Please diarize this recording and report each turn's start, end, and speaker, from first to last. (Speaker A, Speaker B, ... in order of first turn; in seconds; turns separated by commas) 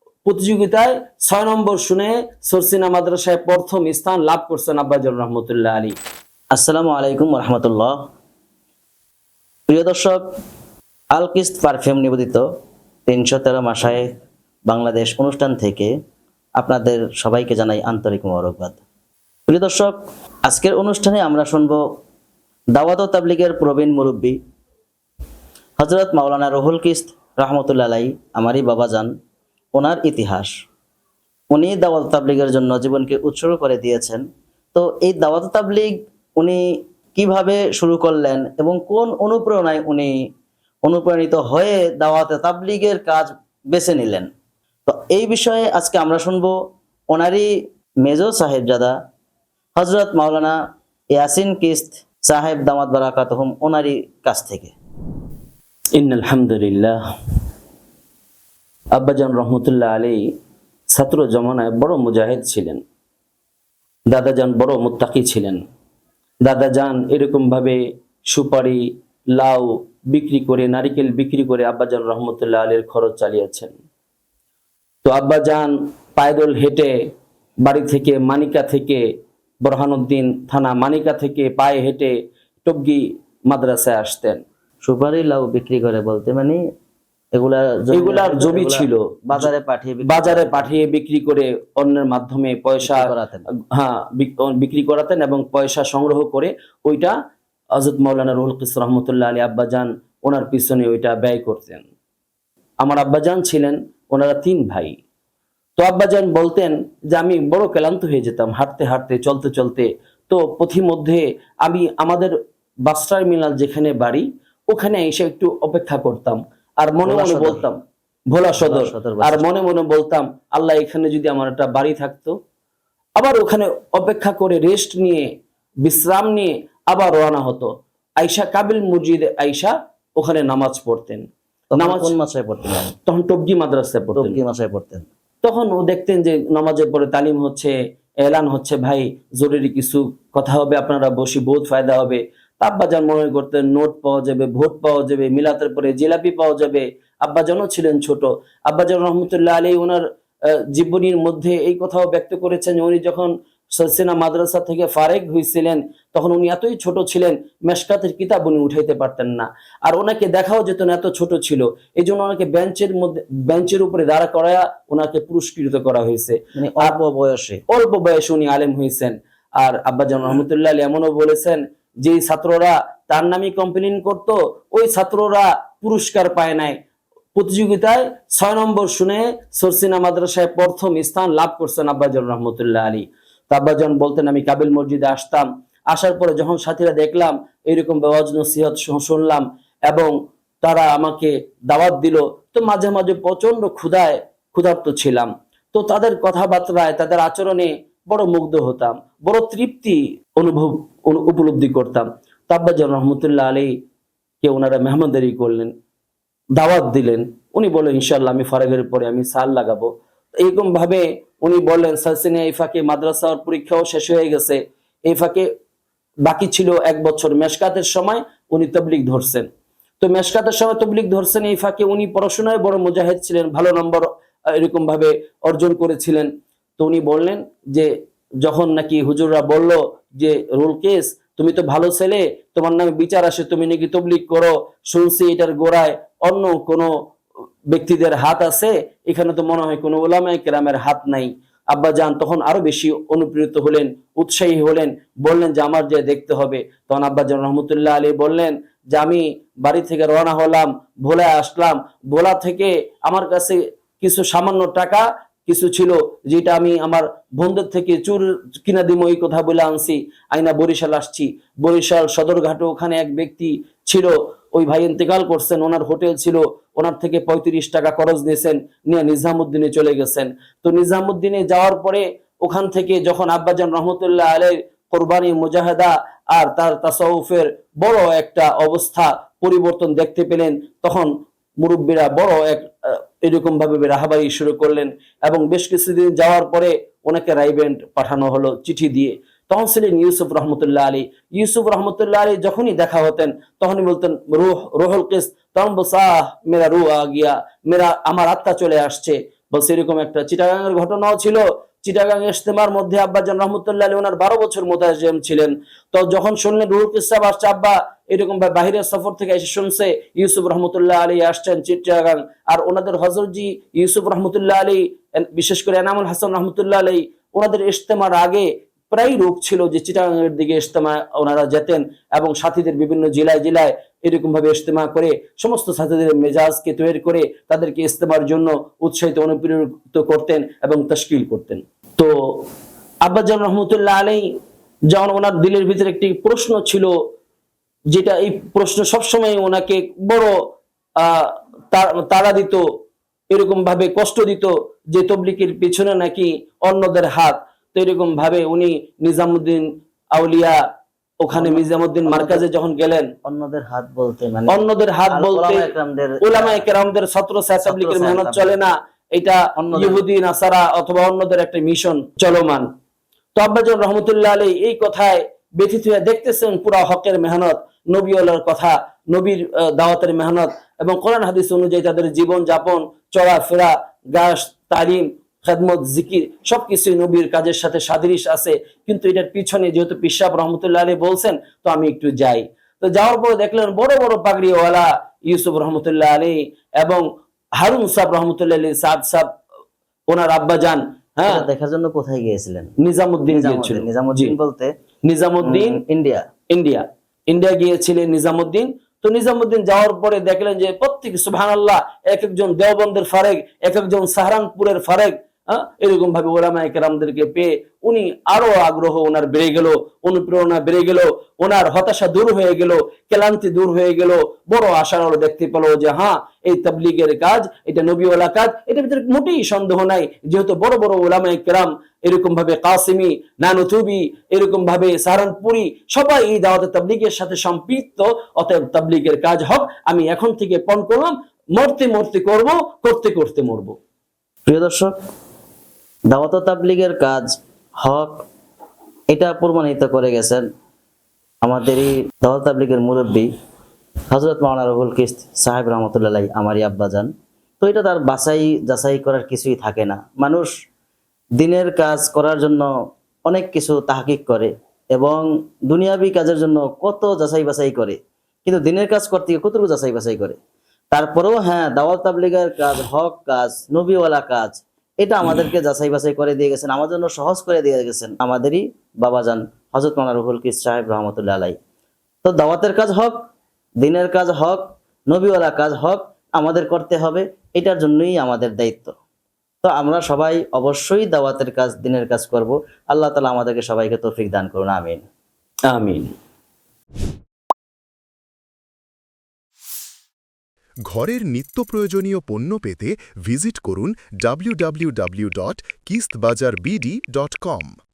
Speaker A: 0.2-6.0, Speaker B: 6.5-8.0, Speaker B: 9.7-10.2, Speaker B: 11.1-12.4, Speaker B: 13.1-14.1, Speaker B: 14.7-15.9, Speaker B: 16.6-18.8, Speaker B: 19.5-21.8, Speaker B: 22.8-24.4, Speaker B: 25.8-29.1, Speaker B: 29.7-30.5, Speaker B: 31.5-40.2, Speaker B: 40.8-44.3, Speaker B: 44.9-46.5, Speaker B: 47.1-49.0, Speaker B: 49.8-50.6, Speaker B: 51.1-54.7, Speaker A: 56.0-57.0, Speaker A: 58.9-60.3, Speaker A: 60.9-62.8, Speaker A: 64.1-65.6, Speaker A: 66.4-73.7, Speaker A: 75.0-76.9, Speaker A: 77.6-79.0, Speaker A: 79.6-84.4, Speaker B: 84.8-86.6, Speaker B: 87.3-90.7, Speaker A: 87.9-89.5, Speaker A: 90.0-93.1, Speaker B: 92.8-93.5, Speaker A: 93.7-97.2, Speaker A: 97.8-101.9, Speaker A: 102.8-105.0, Speaker A: 105.8-112.3, Speaker A: 112.8-117.8, Speaker B: 117.0-117.7, Speaker A: 118.3-122.3, Speaker B: 118.5-119.5, Speaker A: 123.2-125.3, Speaker A: 125.8-131.2, Speaker B: 131.7-132.9, Speaker A: 131.8-132.1, Speaker A: 133.0-134.4, Speaker B: 134.2-135.1, Speaker A: 135.4-150.0, Speaker A: 150.7-166.9, Speaker B: 166.5-167.6, Speaker A: 167.7-176.8, Speaker A: 177.3-203.7, Speaker A: 204.4-205.7, Speaker A: 206.6-215.5, Speaker A: 216.2-219.4, Speaker A: 220.0-227.9, Speaker A: 228.4-236.9, Speaker A: 237.7-332.4, Speaker A: 333.0-334.3, Speaker A: 334.9-336.9, Speaker A: 337.9-340.4, Speaker A: 341.0-342.6, Speaker A: 343.3-350.6, Speaker A: 351.2-353.1, Speaker B: 351.3-352.4, Speaker B: 353.2-356.7, Speaker A: 354.5-355.7, Speaker A: 356.2-362.7, Speaker B: 357.6-358.6, Speaker B: 359.6-360.0, Speaker A: 363.4-387.1, Speaker A: 387.6-389.4, Speaker A: 390.1-391.5, Speaker B: 391.2-392.7, Speaker A: 392.8-394.3, Speaker B: 393.3-394.7, Speaker A: 395.1-395.8, Speaker B: 395.4-396.3, Speaker A: 396.5-433.8, Speaker B: 434.5-434.9, Speaker B: 436.1-437.3, Speaker B: 437.8-438.2, Speaker B: 439.1-440.4, Speaker B: 441.4-443.3, Speaker B: 444.1-447.1, Speaker B: 447.6-450.5, Speaker B: 451.4-452.7, Speaker B: 453.3-460.4, Speaker B: 460.9-471.6, Speaker B: 472.2-473.3, Speaker B: 473.8-478.9, Speaker B: 479.6-485.1, Speaker A: 485.7-486.1, Speaker C: 490.9-497.8